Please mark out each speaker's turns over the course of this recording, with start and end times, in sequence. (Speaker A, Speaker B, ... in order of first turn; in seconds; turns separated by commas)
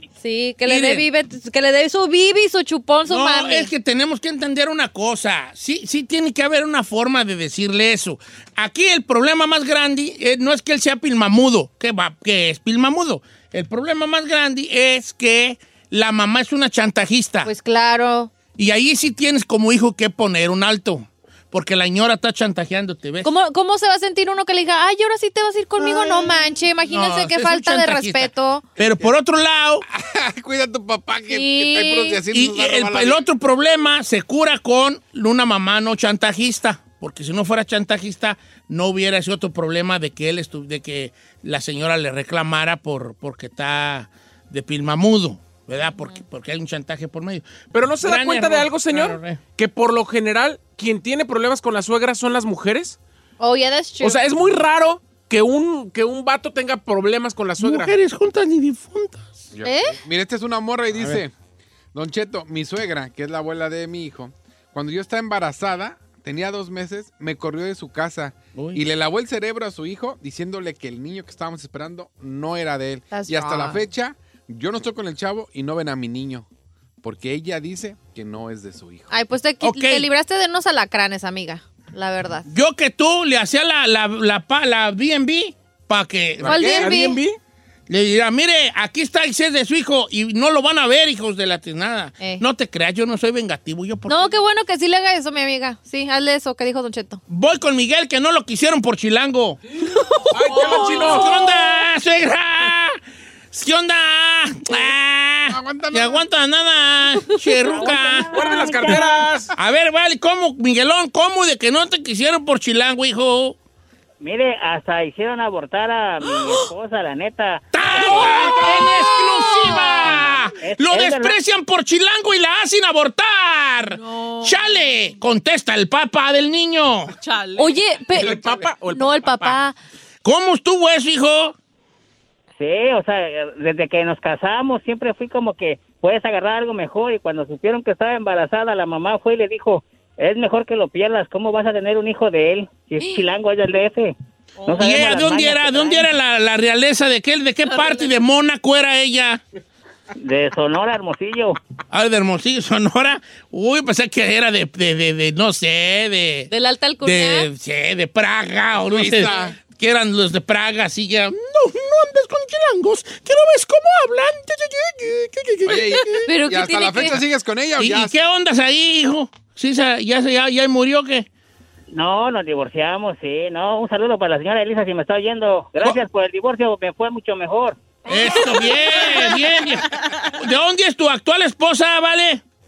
Speaker A: 0.2-3.7, Speaker B: 0.7-1.1, Speaker B: 3.1-17.5, Speaker A: 17.4-18.3, Speaker B: 18.6-23.3, Speaker A: 23.2-28.6, Speaker B: 25.8-29.8, Speaker C: 29.9-33.2, Speaker A: 31.3-32.2, Speaker B: 32.3-49.4, Speaker D: 47.7-53.0, Speaker A: 53.4-54.2, Speaker D: 54.0-57.9, Speaker B: 57.6-59.5, Speaker C: 59.5-61.3, Speaker A: 59.6-60.0, Speaker B: 60.9-61.2, Speaker C: 61.9-76.5, Speaker B: 68.5-68.8, Speaker A: 73.1-73.8, Speaker C: 77.0-79.1, Speaker A: 79.1-82.5, Speaker B: 79.6-80.1, Speaker B: 82.5-86.9, Speaker C: 86.4-86.9, Speaker A: 86.5-87.2, Speaker D: 86.7-87.4, Speaker B: 87.9-94.4, Speaker A: 94.1-97.2, Speaker B: 97.3-99.6, Speaker A: 99.9-101.5, Speaker D: 100.3-101.3, Speaker E: 100.7-101.0, Speaker B: 101.0-103.0, Speaker B: 103.5-108.3, Speaker C: 105.5-106.2, Speaker F: 107.7-109.3, Speaker D: 108.3-109.5, Speaker B: 109.5-113.6, Speaker F: 114.2-118.7, Speaker E: 116.3-116.7, Speaker B: 117.7-127.1, Speaker A: 118.3-120.0, Speaker E: 118.7-120.0, Speaker F: 120.0-121.4, Speaker E: 123.9-125.0, Speaker E: 127.1-127.8, Speaker A: 127.6-129.8, Speaker D: 128.1-129.6, Speaker B: 130.2-131.6, Speaker F: 132.6-146.1, Speaker B: 144.7-149.4, Speaker F: 150.1-151.6, Speaker B: 151.9-156.5, Speaker A: 156.5-157.5, Speaker B: 157.0-166.3, Speaker C: 158.8-159.6, Speaker C: 165.7-168.1, Speaker A: 166.2-167.2, Speaker B: 167.8-171.3, Speaker F: 171.9-177.8, Speaker B: 178.1-182.4, Speaker E: 179.1-179.3, Speaker E: 180.0-180.3